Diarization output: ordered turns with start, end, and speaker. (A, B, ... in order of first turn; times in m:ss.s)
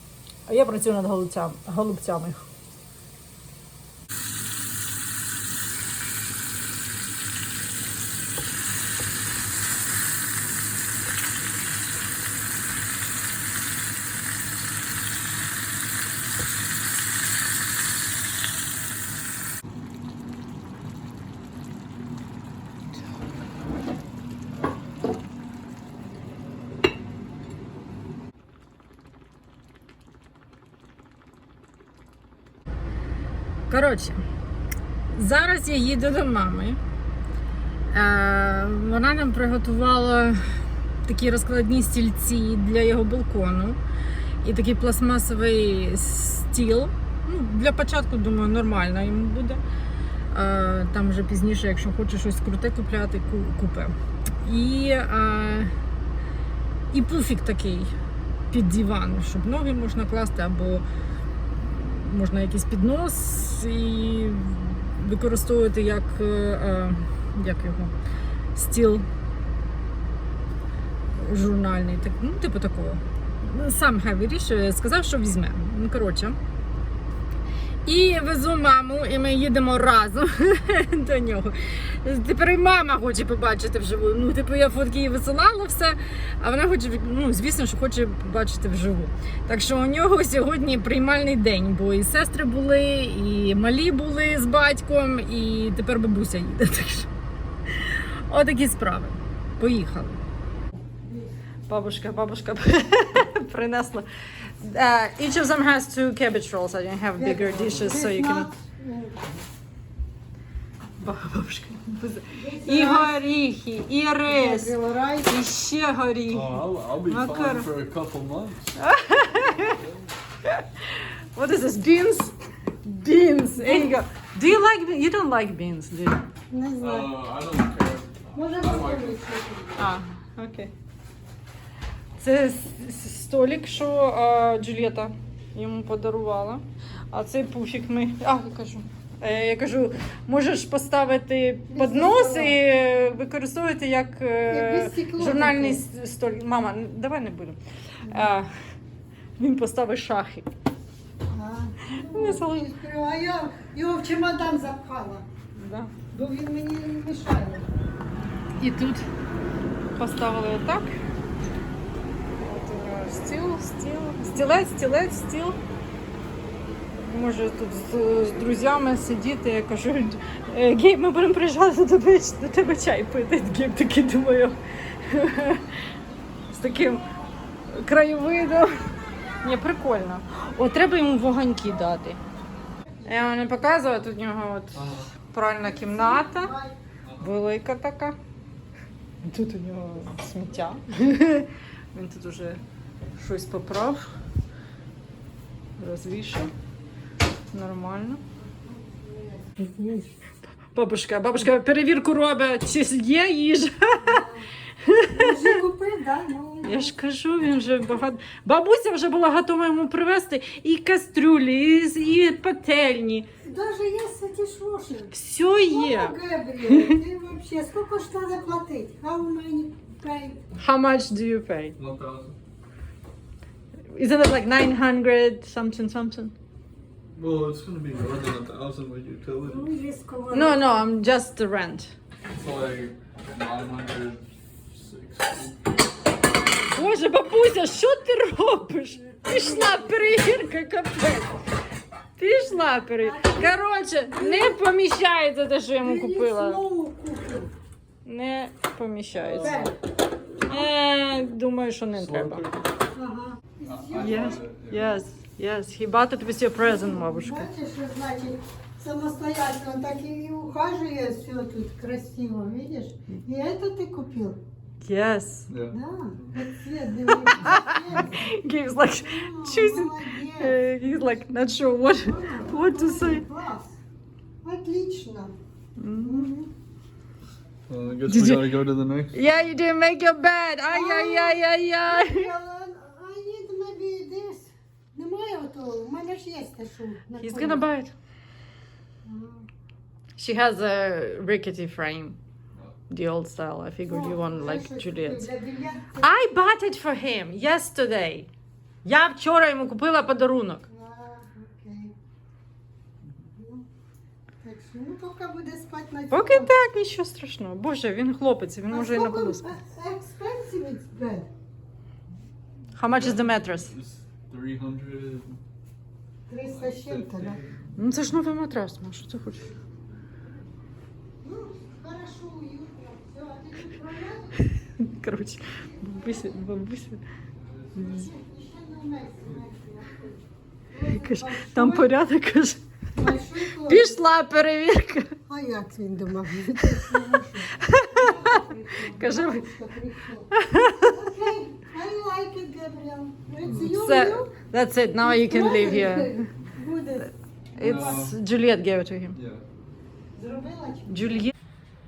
0:00.5-0:02.4 A
0:33.7-0:34.2 A
0:35.1-0:36.8 A
0:37.9-0:43.8 A
0:44.4-0:49.6 A
0:50.3-0:55.7 A
0:56.9-0:57.9 A
0:58.5-1:00.8 A
1:01.5-1:07.9 A
1:08.5-1:09.0 A
1:11.1-1:16.4 A
1:17.8-1:37.1 A
1:37.7-1:40.2 A
1:41.0-1:41.3 B
1:41.7-1:48.5 A
1:47.2-1:49.2 B
1:51.0-1:57.7 A
1:52.3-1:53.2 B
1:54.3-1:55.3 B
1:56.3-1:58.7 C
1:58.8-1:59.8 A
1:59.4-2:00.1 C
2:00.4-2:06.2 A
2:03.6-2:03.9 B
2:06.5-2:07.1 B
2:06.8-2:09.2 C
2:08.3-2:09.9 B
2:09.8-2:10.7 A
2:12.2-2:28.5 A
2:21.7-2:22.6 B
2:24.5-2:25.8 B
2:29.4-2:30.5 A
2:31.3-2:35.2 B
2:31.9-2:32.7 A
2:35.5-2:35.9 A
2:36.1-2:37.6 B
2:38.6-2:39.0 A
2:39.9-2:41.0 A
2:42.4-2:45.6 A
2:47.0-2:55.7 A
2:56.5-2:57.0 A
2:57.7-2:58.7 A
2:59.4-3:02.2 A
3:03.0-3:06.5 A
3:04.7-3:05.1 C
3:05.6-3:06.8 B
3:07.0-3:07.3 C
3:07.2-3:08.2 A
3:09.2-3:12.6 A
3:13.2-3:14.1 A
3:15.8-3:16.5 A
3:17.5-3:18.2 A
3:18.5-3:20.1 B
3:20.7-3:24.2 A
3:24.0-3:24.5 B
3:24.8-3:25.3 A
3:25.1-3:26.9 B
3:26.6-3:33.3 A
3:33.4-3:40.4 B
3:35.1-3:37.0 A
3:40.6-3:41.8 A
3:41.8-3:42.4 C
3:43.9-3:46.3 A
3:47.2-3:49.7 C
3:49.4-3:50.7 B
3:50.3-3:51.9 A
3:52.3-3:55.7 C
3:56.7-4:01.4 A
4:02.2-4:06.6 A
4:03.0-4:04.6 B
4:05.8-4:07.5 B
4:08.0-4:09.6 A
4:09.2-4:09.7 C
4:09.4-4:09.7 B
4:10.4-4:12.6 A
4:11.9-4:12.7 C
4:12.9-4:14.4 B
4:13.6-4:15.0 C
4:14.0-4:17.5 A
4:16.6-4:24.4 B
4:24.8-4:25.5 A
4:25.5-4:26.4 C
4:25.7-4:28.3 B
4:27.4-4:33.2 A
4:28.9-4:30.6 B
4:32.0-4:33.8 B
4:34.4-4:35.3 B
4:35.8-4:36.3 A
4:36.0-4:36.5 B
4:37.7-4:39.2 C
4:38.1-4:38.4 A
4:39.1-4:42.3 A
4:40.7-4:47.6 B
4:47.2-4:47.9 A
4:49.0-4:49.5 B
4:50.2-4:52.2 A
4:52.9-4:55.3 A
4:53.8-4:56.1 B
4:56.0-4:58.3 A
4:58.8-5:00.6 A
5:00.7-5:01.9 B
5:03.3-5:03.6 B
5:04.4-5:06.5 B
5:06.1-5:09.5 A
5:08.7-5:11.3 B
5:12.8-5:13.7 A
5:12.9-5:15.4 C
5:16.3-5:17.4 B
5:16.5-5:17.7 C
5:17.8-5:19.5 A
5:21.2-5:24.3 B
5:24.6-5:27.0 A
5:25.6-5:26.2 B
5:27.4-5:28.1 C
5:27.8-5:28.0 A
5:27.8-5:31.9 B
5:31.0-5:32.6 A
5:32.9-5:34.0 B
5:33.6-5:35.2 A
5:35.3-5:44.3 B
5:37.6-5:39.5 A
5:40.3-5:41.0 A
5:43.4-5:43.7 C
5:43.6-5:46.3 A
5:45.0-5:47.1 B
5:47.5-5:49.2 A
5:47.6-5:48.2 C
5:47.6-5:47.9 B
5:49.1-5:49.4 C
5:50.1-5:51.1 B
5:50.9-5:51.3 A